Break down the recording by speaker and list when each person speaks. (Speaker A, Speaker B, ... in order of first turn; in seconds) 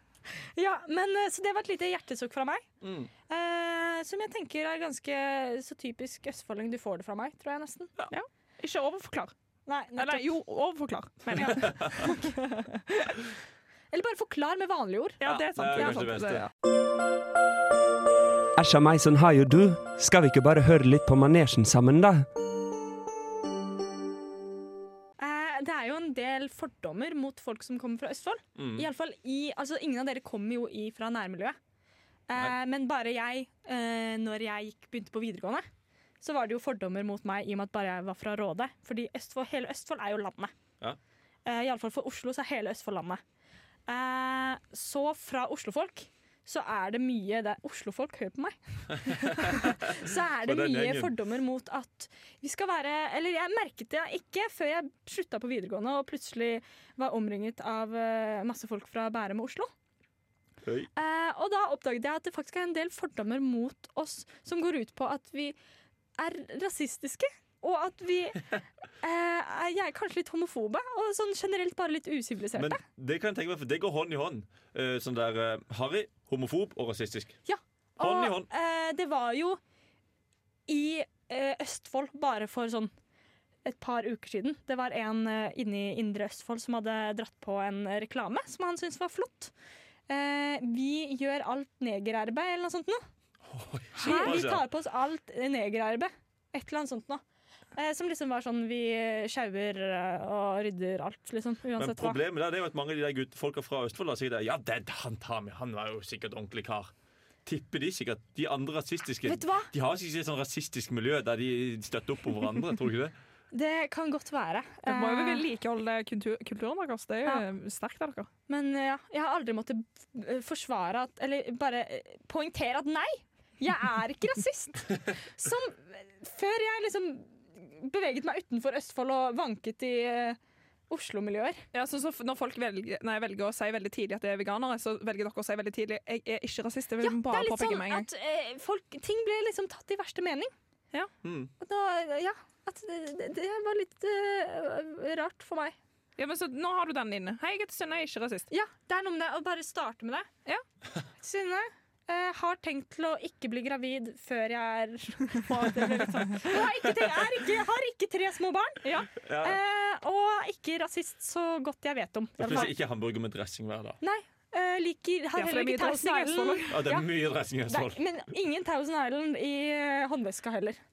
Speaker A: 0.3-2.7, 3.3-7.9, 9.7-10.3, 11.3-12.6, 13.9-15.2, 25.2-31.6, 32.3-35.7, 36.2-40.5, 41.5-43.2, 43.9-59.7, 61.0-65.6, 66.2-72.8, 77.5-79.6, 80.7-82.9, 83.7-89.5, 90.1-93.0, 94.0-97.2, 97.8-102.2, 109.2-109.7, 113.5-115.5, 118.5-131.7, 137.0-140.5, 141.6-145.8, 148.5-150.3, 151.2-158.9, 159.4-162.7, 164.0-167.1, 167.7-170.8
Speaker B: 2.8-3.1, 11.4-12.0, 15.2-16.5, 28.6-28.9, 48.9-51.1, 60.6-60.9, 72.5-77.4, 78.0-78.5, 93.5-94.7, 101.8-106.9, 107.5-113.1, 141.2-141.5, 159.2-159.6, 162.4-164.0, 166.7-168.0
Speaker C: 8.1-9.3, 10.0-13.2, 15.2-16.5, 114.9-118.3, 131.7-138.1, 146.2-148.5, 158.8-159.1, 165.4-166.8
Speaker D: 18.6-22.3